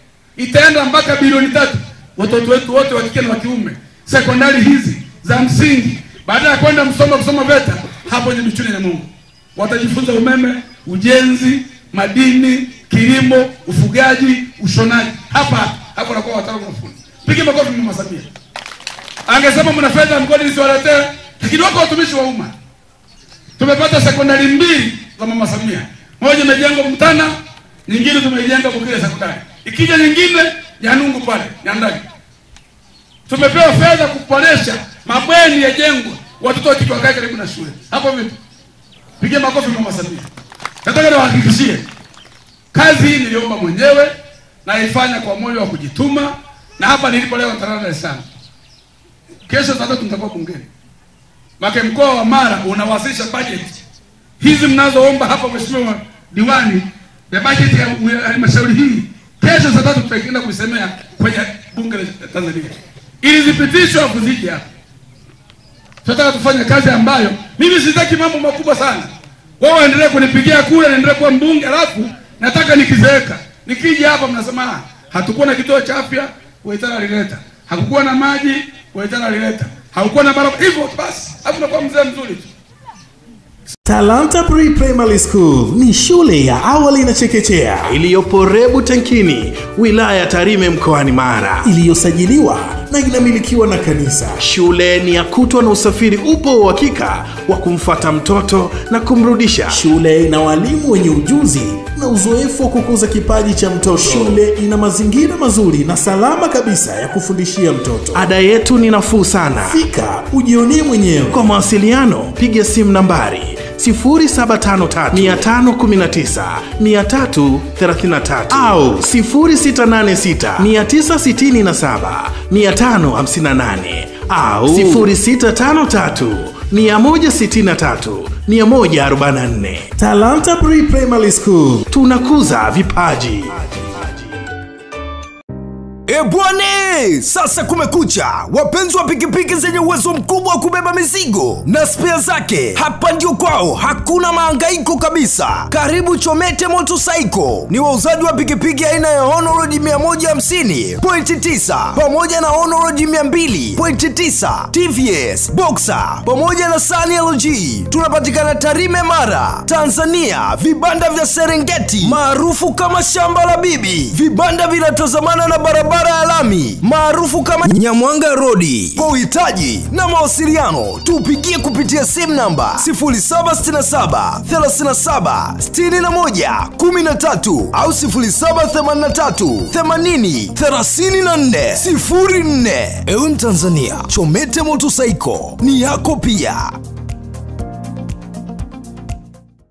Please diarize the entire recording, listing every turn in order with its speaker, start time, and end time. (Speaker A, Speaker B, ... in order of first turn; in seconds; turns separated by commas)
Speaker A: 0.3-18.3, Speaker A: 19.3-22.5, Speaker A: 23.6-27.3, Speaker A: 27.9-32.0, Speaker A: 33.3-38.4, Speaker A: 39.2-40.3, Speaker A: 40.8-41.9, Speaker A: 42.7-44.1, Speaker A: 44.6-48.2, Speaker A: 49.5-50.7, Speaker A: 51.6-53.8, Speaker A: 54.4-64.7, Speaker A: 66.0-82.5, Speaker B: 83.8-87.9, Speaker C: 87.8-91.7, Speaker B: 91.6-94.4, Speaker C: 94.4-99.8, Speaker B: 99.7-108.2, Speaker C: 104.0-104.4, Speaker C: 108.1-109.8, Speaker B: 109.7-111.4, Speaker C: 111.3-129.9, Speaker B: 115.1-115.5, Speaker B: 118.5-118.8, Speaker B: 124.7-125.1, Speaker B: 129.9-131.9, Speaker C: 131.9-134.1, Speaker D: 136.1-186.8